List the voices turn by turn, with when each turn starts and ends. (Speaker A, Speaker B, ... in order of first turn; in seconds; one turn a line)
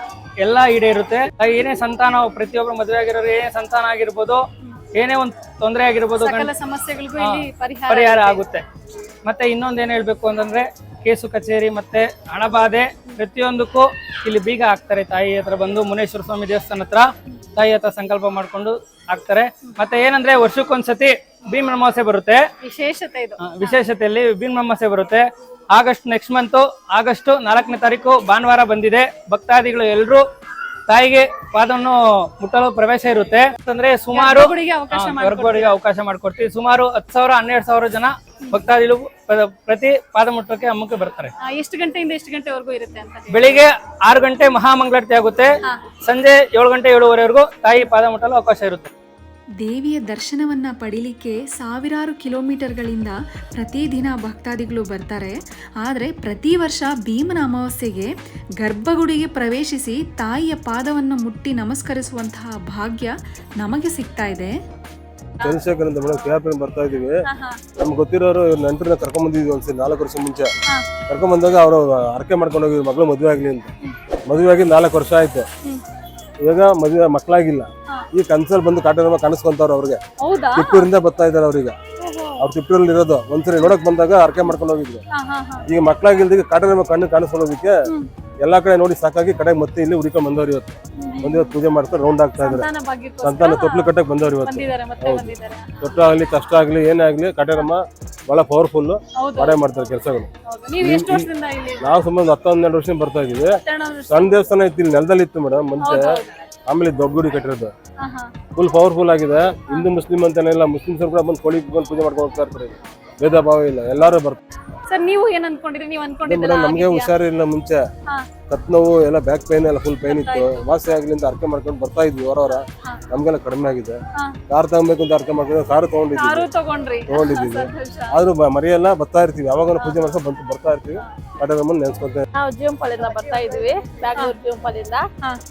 Speaker A: 0.4-4.4
Speaker A: 5.0-6.5
Speaker B: 6.2-8.4
Speaker A: 7.2-8.6
Speaker A: 9.2-22.4
Speaker B: 22.6-23.8
Speaker A: 23.4-30.2
Speaker A: 30.9-41.3
Speaker B: 34.1-35.8
Speaker B: 41.5-43.6
Speaker A: 43.3-45.5
Speaker A: 46.0-48.9
Speaker C: 49.6-64.5
Speaker D: 65.4-67.1
Speaker B: 67.3-67.6
Speaker D: 67.8-70.5
Speaker D: 71.1-73.7
Speaker D: 74.3-75.5
Speaker D: 76.5-80.0
Speaker B: 80.2-80.9
Speaker D: 80.6-81.8
Speaker B: 82.0-82.3
Speaker D: 82.4-85.0
Speaker B: 85.1-85.6
Speaker D: 85.7-87.7
Speaker D: 88.4-92.7
Speaker B: 91.0-91.5
Speaker B: 92.4-93.9
Speaker D: 93.2-100.3
Speaker B: 94.4-95.7
Speaker B: 99.2-99.7
Speaker B: 100.5-101.9
Speaker D: 100.8-101.3
Speaker D: 101.8-103.5
Speaker B: 103.6-104.3
Speaker D: 104.1-106.0
Speaker B: 105.8-106.3
Speaker D: 106.7-107.7
Speaker B: 108.0-108.3
Speaker D: 108.6-114.4
Speaker B: 114.9-117.1
Speaker D: 116.3-117.8
Speaker D: 118.5-124.0
Speaker B: 120.0-121.0
Speaker D: 124.5-126.5
Speaker B: 126.2-128.2
Speaker D: 127.1-132.2
Speaker B: 129.8-130.1
Speaker E: 132.3-135.0